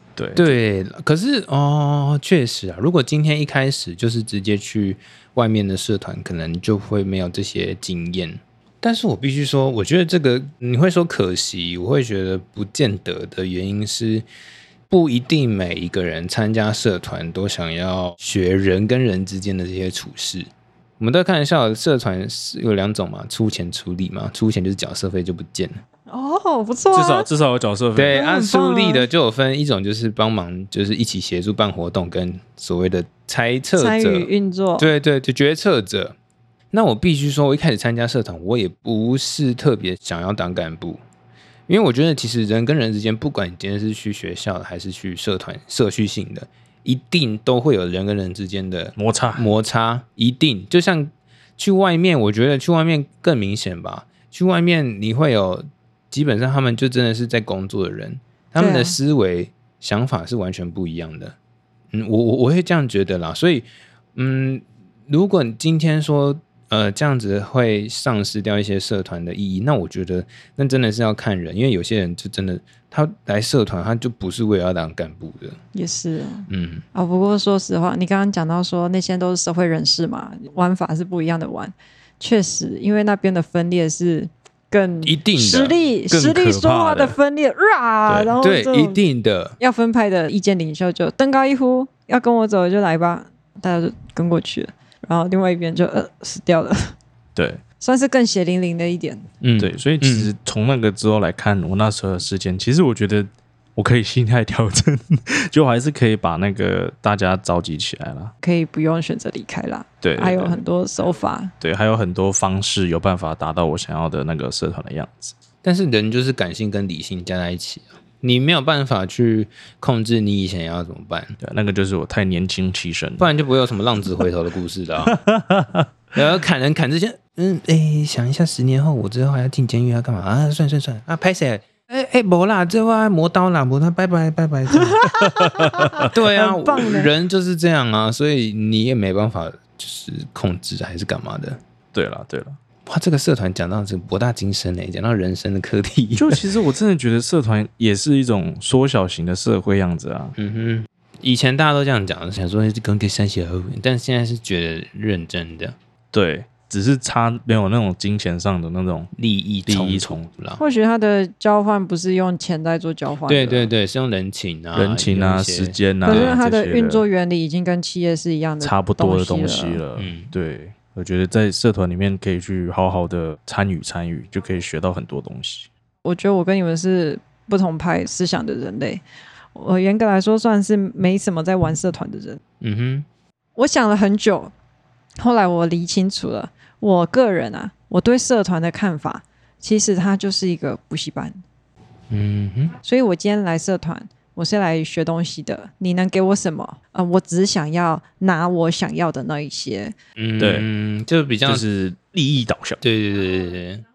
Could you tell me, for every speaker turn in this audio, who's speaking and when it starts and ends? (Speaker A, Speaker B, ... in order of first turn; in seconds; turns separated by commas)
Speaker A: 0.2-0.5, Speaker B: 0.3-14.2, Speaker B: 14.9-20.5, Speaker B: 21.0-25.8, Speaker C: 26.1-27.3, Speaker A: 26.9-28.2, Speaker B: 27.9-36.1, Speaker C: 28.1-29.1, Speaker C: 33.8-34.9, Speaker B: 36.7-41.0, Speaker B: 41.7-61.3, Speaker A: 49.0-49.5, Speaker C: 58.6-59.0, Speaker B: 61.9-75.6, Speaker C: 75.7-89.0, Speaker B: 76.5-76.8, Speaker B: 85.0-85.8, Speaker A: 86.1-87.2, Speaker A: 88.1-88.3, Speaker B: 88.4-89.5, Speaker C: 89.6-96.9, Speaker A: 97.3-97.6, Speaker C: 97.8-99.2, Speaker B: 99.4-100.3, Speaker A: 99.6-108.3, Speaker C: 108.4-111.5, Speaker A: 110.0-110.6, Speaker A: 111.6-115.3, Speaker B: 115.6-121.4, Speaker A: 121.4-123.3, Speaker B: 123.2-125.2, Speaker A: 125.1-125.9, Speaker B: 126.1-135.2, Speaker C: 134.8-137.1, Speaker A: 135.2-136.1, Speaker B: 136.0-141.6, Speaker A: 141.9-142.6, Speaker B: 142.9-146.4, Speaker A: 146.2-150.3, Speaker B: 150.3-155.8, Speaker A: 156.1-159.1, Speaker B: 159.1-160.6, Speaker A: 159.7-160.3, Speaker C: 160.6-163.7, Speaker B: 163.3-166.4, Speaker A: 164.7-167.0, Speaker C: 166.0-169.8, Speaker A: 168.6-175.7, Speaker B: 169.9-170.3, Speaker C: 176.0-179.0, Speaker C: 179.5-182.4, Speaker B: 182.6-183.1, Speaker C: 183.6-184.5, Speaker C: 185.2-191.4, Speaker B: 192.1-192.7, Speaker C: 192.8-199.9, Speaker B: 200.2-201.6, Speaker A: 200.4-200.7, Speaker A: 201.4-202.8, Speaker B: 202.8-203.8